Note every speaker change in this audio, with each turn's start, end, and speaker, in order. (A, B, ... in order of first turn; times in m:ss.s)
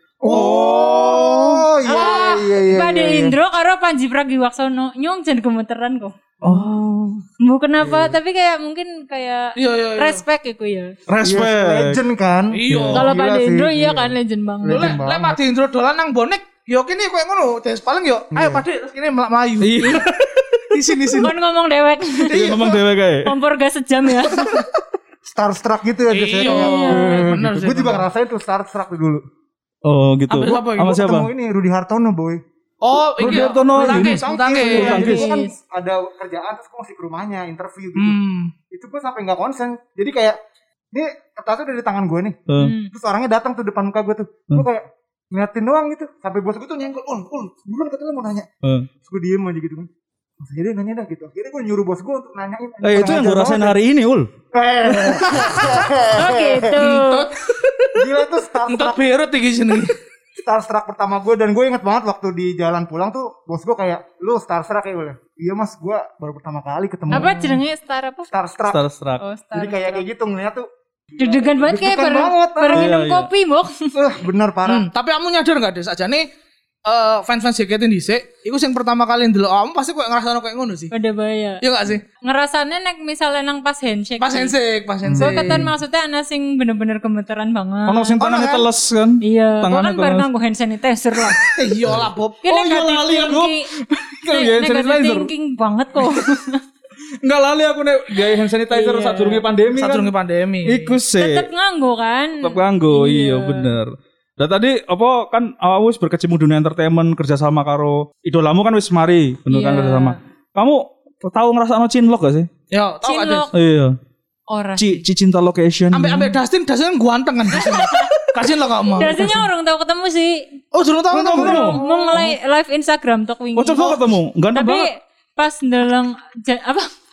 0:00.2-0:03.4 A
0:00.2-0:01.3 B
0:00.3-0:02.4 C
0:01.8-0:06.7 D
0:06.4-0:07.2 B
0:07.4-0:11.0 D
0:07.8-0:08.2 A
0:09.6-0:10.2 C
0:11.1-0:12.0 B
0:11.2-0:15.4 A
0:12.5-0:13.1 C
0:12.7-0:13.0 B
0:12.9-0:15.0 D
0:14.7-0:20.1 C
0:18.3-0:18.6 A
0:19.6-0:20.7 B
0:20.7-0:21.4 C
0:21.2-0:22.3 D
0:22.2-0:22.9 C
0:22.3-0:23.3 B
0:23.2-0:24.7 D
0:25.3-0:29.2 A
0:26.1-0:28.0 C
0:26.4-0:27.3 D
0:29.8-0:31.3 B
0:30.3-0:31.0 C
0:30.8-0:32.4 A
0:32.8-0:35.2 C
0:33.2-0:35.3 B
0:33.2-0:40.4 A
0:34.7-0:35.5 D
0:38.0-0:38.5 C
0:40.9-0:42.4 A
0:42.5-0:42.7 B
0:42.6-0:42.9 D
0:42.9-0:48.5 A
0:48.6-0:48.9 B
0:49.0-0:53.8 A
0:52.8-0:54.3 B
0:54.5-0:56.8 A
0:55.0-0:55.8 C
0:56.2-0:57.2 D
0:56.8-0:58.1 C
0:58.0-0:59.0 A
0:58.7-1:00.0 C
1:00.4-1:07.6 A
1:07.1-1:08.3 D
1:08.3-1:08.8 A
1:08.7-1:09.2 B
1:09.2-1:10.0 D
1:09.5-1:12.9 A
1:11.2-1:13.9 D
1:12.7-1:13.3 B
1:13.9-1:14.9 A
1:14.7-1:16.3 C
1:16.8-1:20.9 C
1:20.9-1:21.6 D
1:21.6-1:22.0 C
1:22.2-1:24.5 D
1:24.2-1:25.7 C
1:25.0-1:25.7 A
1:25.2-1:28.2 D
1:27.9-1:30.3 B
1:28.2-1:28.7 C
1:29.2-1:31.4 D
1:31.6-1:32.4 C
1:31.9-1:35.3 B
1:32.4-1:33.7 D
1:34.3-1:36.6 D
1:37.2-1:40.1 B
1:38.7-1:39.4 D
1:39.7-1:41.0 C
1:40.6-1:41.5 B
1:41.1-1:43.7 D
1:42.4-1:52.5 B
1:49.5-1:50.2 D
1:52.7-1:53.5 C
1:53.0-1:53.5 D
1:53.5-1:54.0 B
1:54.5-1:55.0 D
1:54.8-1:56.4 B
1:55.9-1:59.4 C
1:57.5-1:58.1 D
1:59.0-2:00.4 D
2:00.7-2:02.2 C
2:01.1-2:02.3 B
2:01.4-2:04.0 D
2:03.6-2:04.9 B
2:04.5-2:06.9 D